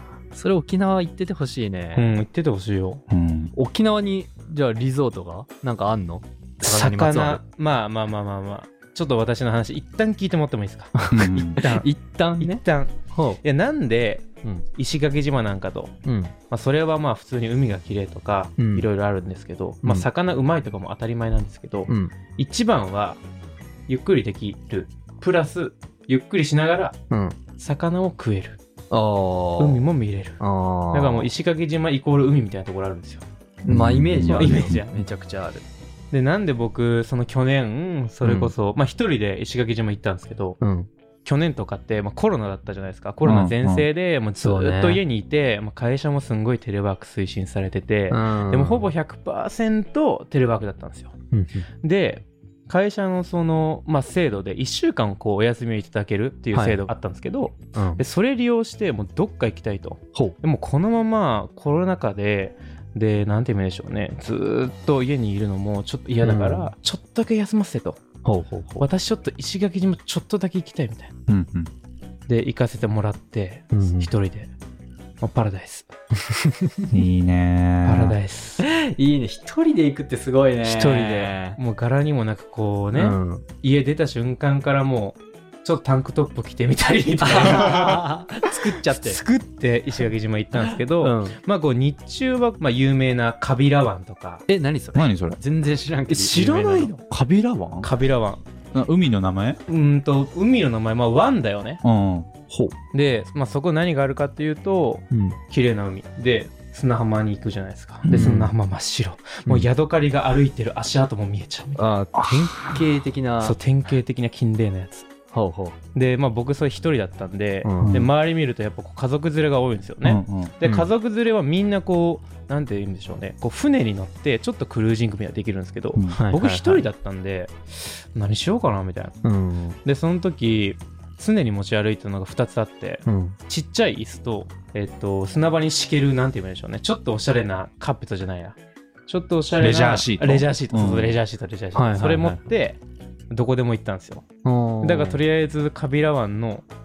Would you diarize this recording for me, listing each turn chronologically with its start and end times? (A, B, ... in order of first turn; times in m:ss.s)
0:00.3-0:02.2 A
0:02.0-0:03.0 B
0:03.1-0:03.5 C
0:03.5-0:07.4 A
0:06.6-0:15.9 B
0:11.0-0:13.4 A
0:11.1-0:11.6 C
0:16.0-0:16.3 A
0:16.5-0:23.2 B
0:18.6-0:18.9 A
0:21.9-0:22.1 A
0:23.9-0:27.0 B
0:27.1-0:27.4 A
0:27.6-0:28.6 B
0:28.9-0:29.9 A
0:29.6-0:30.4 B
0:30.4-0:31.3 A
0:30.9-0:33.2 B
0:33.6-0:35.6 A
0:33.7-0:34.8 C
0:34.2-0:35.0 B
0:36.1-0:40.6 B
0:38.2-0:38.5 A
0:40.6-0:40.9 A
0:41.2-0:51.1 B
0:43.2-0:43.9 C
0:44.4-0:45.0 A
0:48.1-0:48.9 A
0:51.3-0:51.7 A
0:51.8-1:08.0 B
0:56.5-0:56.9 A
0:57.7-0:58.0 A
1:06.2-1:06.7 A
1:08.2-1:08.9 A
1:08.8-1:11.1 B
1:11.3-1:11.7 C
1:12.3-1:14.5 B
1:13.7-1:14.1 A
1:15.2-1:15.9 B
1:16.5-1:16.7 A
1:16.9-1:18.2 C
1:17.8-1:18.6 B
1:18.6-1:21.6 A
1:20.6-1:34.4 B
1:22.9-1:23.5 A
1:27.2-1:29.2 A
1:31.0-1:31.4 A
1:34.5-1:36.9 A
1:34.9-1:35.4 C
1:36.1-1:37.0 B
1:37.1-1:37.9 C
1:37.8-1:38.4 B
1:38.7-1:39.6 C
1:39.7-1:41.8 B
1:41.8-1:42.3 C
1:42.9-1:51.8 B
1:45.1-1:45.4 A
1:48.0-1:48.4 C
1:48.1-1:48.5 A
1:51.8-1:53.6 A
1:52.1-1:52.8 C
1:53.4-1:55.1 B
1:55.3-1:55.8 A
1:56.0-2:09.2 B
1:57.6-1:58.0 A
1:57.8-1:58.1 C
2:00.0-2:00.9 C
2:06.2-2:06.9 A
2:09.2-2:09.8 A
2:09.8-2:22.8 B
2:13.1-2:13.4 A
2:19.6-2:21.2 C
2:21.8-2:22.4 A
2:23.3-2:24.2 B
2:24.4-2:25.2 A
2:24.8-2:26.7 B